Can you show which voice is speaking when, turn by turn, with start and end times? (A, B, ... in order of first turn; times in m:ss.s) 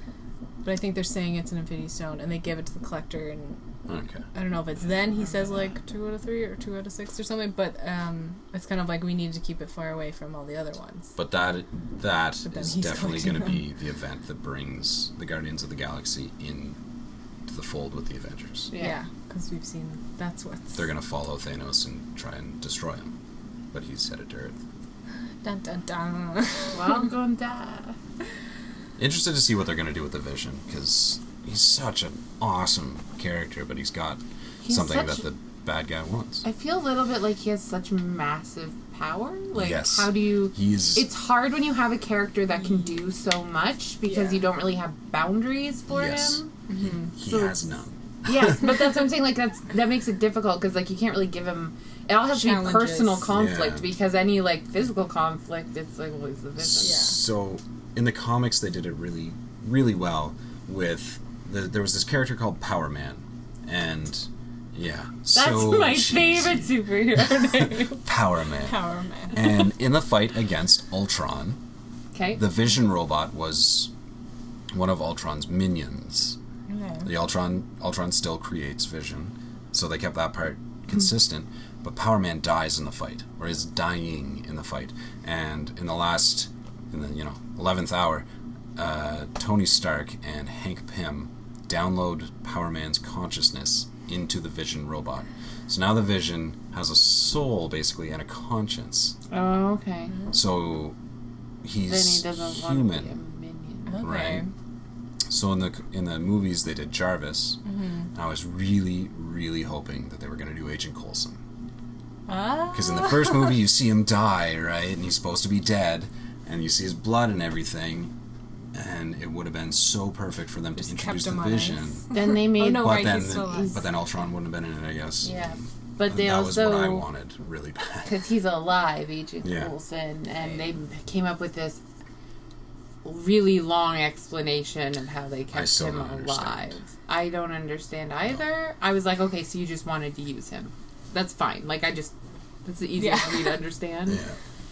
0:00.6-0:03.6 A
0:03.9-0:04.2 B
0:04.3-0:11.1 A
0:11.2-0:16.8 B
0:12.4-0:13.6 A
0:17.5-0:18.7 B
0:18.7-0:19.0 C
0:18.8-0:20.8 A
0:20.8-0:23.1 B
0:23.7-0:24.6 B
0:25.4-0:27.0 A
0:26.7-0:28.0 C
0:29.0-0:36.4 B
0:34.6-0:35.2 C
0:36.4-0:46.5 C
0:39.5-0:41.1 B
0:44.1-0:44.4 A
0:45.9-0:49.0 B
0:46.7-0:47.1 A
0:47.2-0:47.6 C
0:48.2-0:57.0 C
0:52.3-0:53.3 A
0:53.3-0:53.9 B
0:56.6-1:06.7 B
0:56.8-0:57.2 A
1:05.3-1:08.0 C
1:07.3-1:08.8 B
1:08.6-1:09.4 A
1:09.3-1:11.6 B
1:12.1-1:12.4 C
1:12.3-1:13.9 B
1:14.7-1:16.4 B
1:16.7-1:17.1 A
1:17.0-1:39.2 B
1:39.3-1:40.2 C
1:40.3-1:41.0 B
1:41.6-1:43.1 B
1:41.8-1:44.0 C
1:43.9-1:44.5 A
1:44.0-1:44.4 B
1:45.3-1:47.6 B
1:47.6-1:48.1 A
1:48.1-1:51.4 B
1:52.3-1:53.6 A
1:52.7-1:58.1 B
1:58.7-2:02.1 B
2:00.8-2:03.8 A
2:02.1-2:03.8 C
2:02.6-2:08.2 B
2:05.2-2:07.0 C
2:08.0-2:11.8 C
2:09.4-2:09.7 B
2:13.0-2:24.2 C
2:15.5-2:16.7 B
2:23.0-2:23.6 A
2:24.1-2:24.4 B